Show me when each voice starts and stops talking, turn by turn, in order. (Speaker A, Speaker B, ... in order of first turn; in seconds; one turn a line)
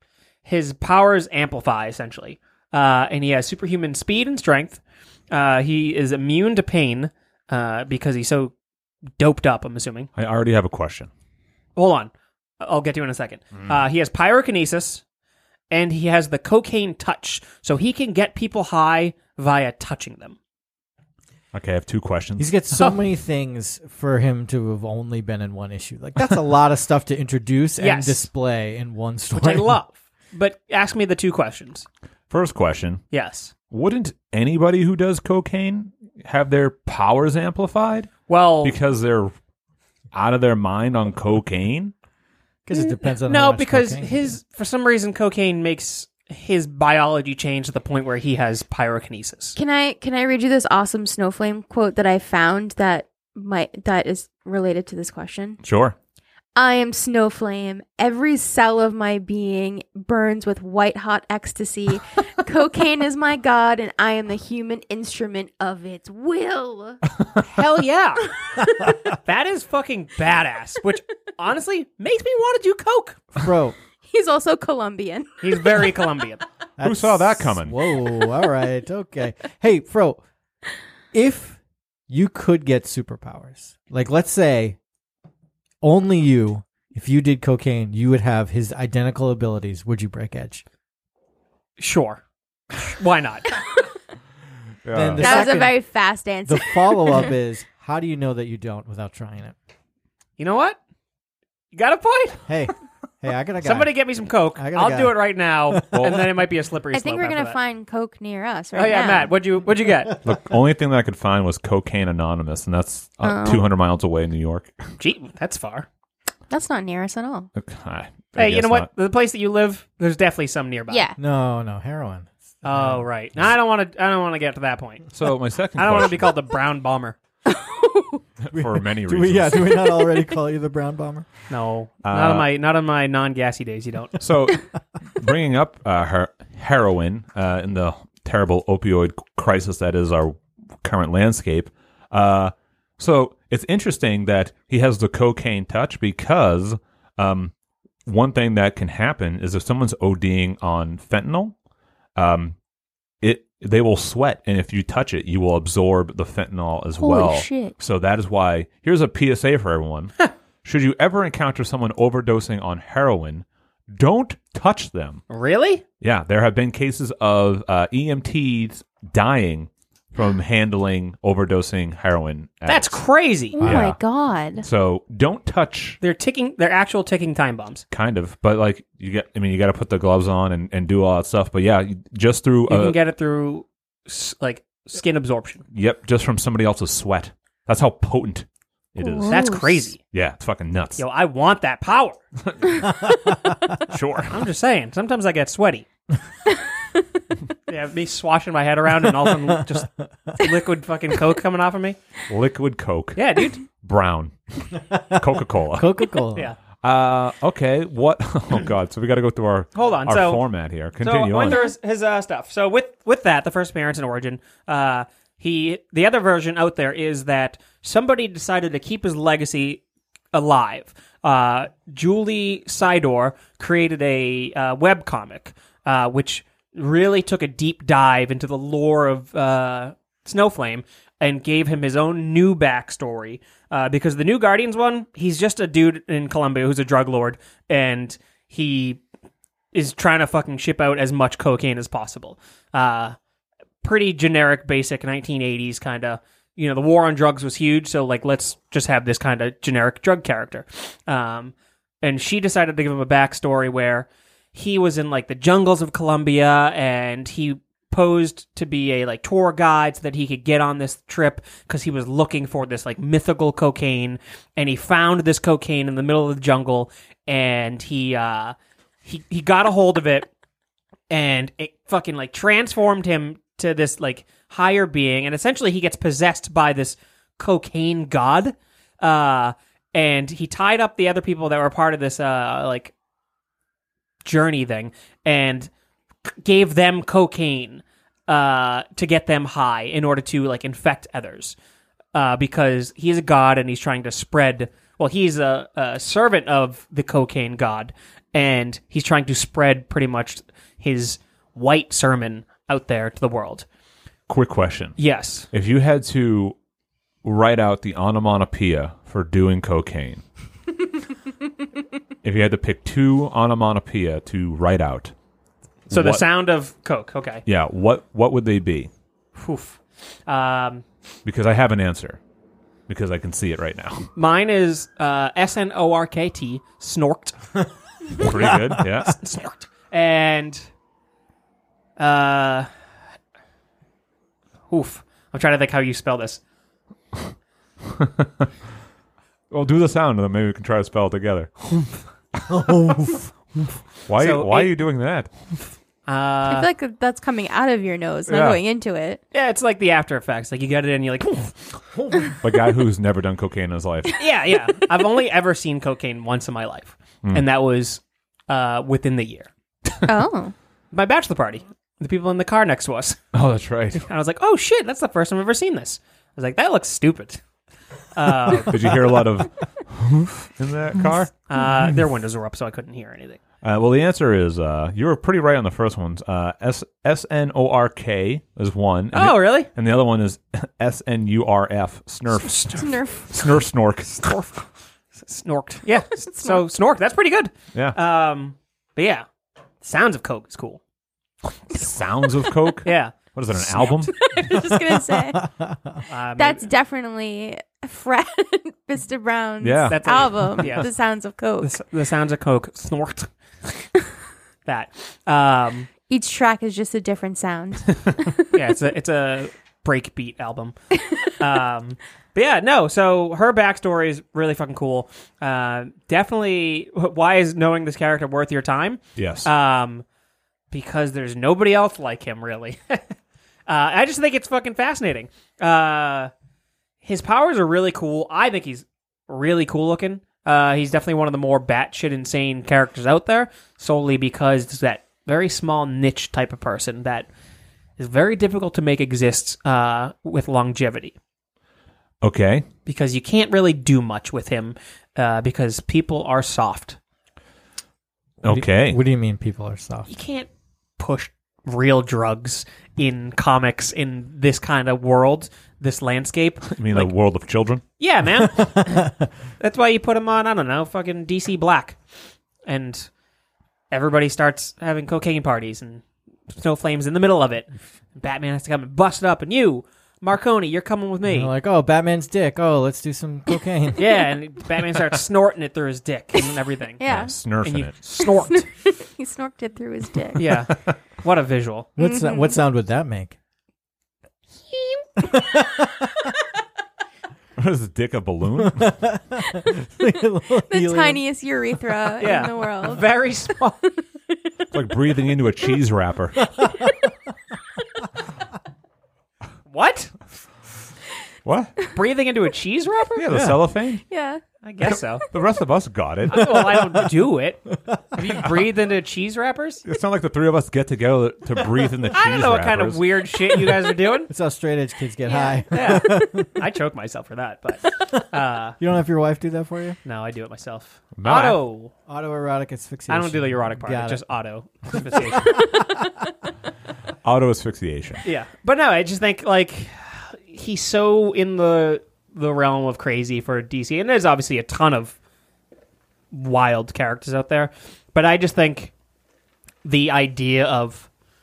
Speaker A: 0.4-8.5
Speaker A: 9.2-10.1
Speaker B: 10.2-11.1
Speaker A: 11.8-15.0
Speaker A: 15.7-20.4
Speaker B: 21.5-22.5
Speaker C: 22.4-29.8
Speaker A: 27.8-28.3
Speaker A: 29.3-31.9
Speaker B: 32.3-33.0
Speaker A: 33.1-33.5
Speaker B: 33.7-38.1
Speaker A: 38.3-38.8
Speaker B: 38.6-39.3
Speaker B: 40.1-41.9
Speaker C: 42.7-44.4
Speaker A: 42.8-49.5
Speaker D: 49.5-55.6
Speaker B: 55.6-56.0
Speaker D: 56.5-67.0
Speaker A: 67.4-68.4
Speaker A: 69.1-73.2
Speaker C: 73.3-73.8
Speaker D: 74.0-75.9
Speaker A: 75.4-76.4
Speaker C: 76.8-80.2
Speaker B: 76.8-77.7
Speaker C: 81.1-84.8
Speaker C: 85.8-90.6
Speaker A: 91.8-92.2
Speaker A: 92.7-93.6
Speaker B: 94.8-95.6
Speaker C: 94.9-95.8
Speaker D: 95.2-97.3
Speaker C: 96.5-99.5
Speaker A: 100.4-100.8
Speaker A: 101.7-102.5
Speaker C: 102.5-103.9
Speaker A: 103.6-107.6
Speaker C: 104.5-106.3
Speaker B: 105.9-106.2
Speaker D: 106.9-109.3
Speaker A: 108.7-110.2
Speaker B: 110.2-114.7
Speaker D: 113.2-113.7
Speaker A: 115.0-115.9
Speaker D: 116.5-117.5
Speaker B: 117.5-118.9
Speaker A: 118.3-121.1
Speaker D: 120.9-121.2
Speaker C: 121.2-123.0
Speaker A: 122.6-125.1
Speaker B: 125.1-126.3
Speaker A: 125.8-127.2
Speaker D: 127.5-128.2
Speaker B: 128.4-129.9
Speaker C: 128.5-131.3
Speaker A: 131.5-134.2
Speaker B: 132.0-132.4
Speaker B: 134.2-147.5
Speaker B: 148.0-151.5
Speaker B: 152.2-152.6
Speaker B: 153.2-165.2
Speaker D: 157.0-157.8
Speaker A: 165.3-165.8
Speaker B: 166.0-173.0
Speaker A: 172.7-173.6
Speaker D: 173.5-174.6
Speaker B: 173.6-174.0
Speaker B: 174.6-176.0
Speaker A: 176.0-177.8
Speaker B: 177.9-183.0
Speaker A: 182.7-185.6
Speaker B: 185.7-191.0
Speaker D: 189.0-189.8
Speaker A: 189.2-190.0
Speaker A: 191.0-192.2
Speaker B: 192.4-193.1
Speaker C: 192.8-193.7
Speaker B: 193.9-194.4
Speaker A: 194.3-195.8
Speaker A: 197.7-202.0
Speaker C: 199.4-200.4
Speaker B: 202.3-206.2
Speaker A: 203.2-203.6
Speaker C: 204.9-205.2
Speaker C: 205.7-206.5
Speaker B: 206.8-211.6
Speaker A: 209.7-210.4
Speaker A: 211.0-219.8
Speaker A: 220.3-239.0
Speaker A: 239.7-243.2
Speaker A: 243.8-270.3
Speaker A: 271.1-282.9
Speaker A: 284.2-285.7
Speaker A: 286.4-291.6
Speaker A: 292.1-303.6
Speaker B: 304.3-305.0
Speaker A: 305.0-305.5
Speaker B: 305.5-306.6
Speaker B: 307.2-310.2
Speaker B: 312.2-315.1
Speaker B: 315.9-316.2
Speaker A: 315.9-317.4
Speaker B: 317.4-318.9
Speaker A: 319.4-320.8
Speaker B: 321.2-322.2
Speaker B: 322.9-324.1
Speaker A: 324.1-327.6
Speaker B: 328.2-329.2
Speaker A: 328.2-330.6
Speaker A: 332.0-332.7
Speaker A: 334.7-336.4
Speaker B: 337.9-338.5
Speaker B: 339.5-341.9
Speaker C: 342.5-343.3
Speaker B: 344.1-345.3
Speaker A: 344.1-344.8
Speaker A: 346.1-346.7
Speaker D: 346.4-349.2
Speaker B: 348.3-348.6
Speaker A: 349.3-351.8
Speaker B: 352.4-354.1
Speaker A: 354.1-359.5
Speaker D: 360.1-360.5
Speaker A: 360.9-363.2
Speaker B: 363.3-364.0
Speaker A: 363.9-367.4
Speaker A: 368.1-368.9
Speaker B: 368.6-371.3
Speaker A: 371.5-373.4
Speaker B: 373.6-384.4
Speaker A: 379.1-379.7
Speaker A: 382.4-382.8
Speaker D: 382.7-383.3
Speaker A: 384.1-384.6
Speaker A: 385.1-389.2
Speaker D: 386.3-386.6
Speaker A: 389.8-390.8
Speaker B: 391.7-394.1
Speaker A: 392.8-394.3
Speaker D: 394.1-395.5
Speaker C: 395.4-396.0
Speaker A: 396.1-396.7
Speaker D: 396.3-401.7
Speaker B: 399.6-400.7
Speaker A: 399.9-400.9
Speaker A: 401.6-403.8
Speaker A: 404.6-405.9
Speaker D: 406.1-408.5
Speaker A: 408.5-410.7
Speaker A: 411.3-420.0
Speaker B: 419.2-419.5
Speaker A: 420.7-423.1
Speaker A: 423.7-426.3
Speaker A: 427.0-437.3
Speaker A: 438.0-441.1
Speaker B: 442.2-442.6
Speaker A: 442.9-447.0
Speaker B: 448.4-449.0
Speaker C: 448.4-450.1
Speaker A: 450.1-450.5
Speaker A: 451.0-457.1
Speaker B: 456.7-457.8
Speaker A: 458.0-462.0
Speaker C: 458.8-459.1
Speaker A: 462.6-463.1
Speaker A: 463.9-471.5
Speaker C: 471.2-474.1
Speaker A: 474.0-478.7
Speaker D: 477.0-477.4
Speaker B: 477.1-477.9
Speaker D: 478.2-480.6
Speaker A: 480.4-481.9
Speaker C: 482.0-483.3
Speaker D: 482.0-482.6
Speaker C: 485.2-486.1
Speaker B: 487.6-488.9
Speaker C: 488.6-491.2
Speaker D: 490.7-493.1
Speaker A: 492.2-493.8
Speaker B: 494.7-496.6
Speaker A: 499.7-500.1
Speaker B: 501.4-501.7
Speaker A: 501.9-503.3
Speaker B: 503.1-504.0
Speaker D: 504.1-504.4
Speaker A: 504.6-505.3
Speaker B: 504.9-506.7
Speaker A: 506.3-509.8
Speaker C: 506.4-506.8
Speaker C: 507.8-508.1
Speaker B: 509.8-513.0
Speaker A: 512.1-514.3
Speaker C: 514.3-516.6
Speaker D: 515.3-515.9
Speaker A: 515.7-518.8
Speaker C: 518.8-520.0
Speaker A: 520.0-521.9
Speaker B: 521.2-521.6
Speaker C: 522.1-524.2
Speaker A: 523.1-525.8
Speaker C: 524.9-525.7
Speaker B: 527.2-528.2
Speaker A: 528.2-535.1
Speaker A: 536.3-538.9
Speaker A: 539.8-541.1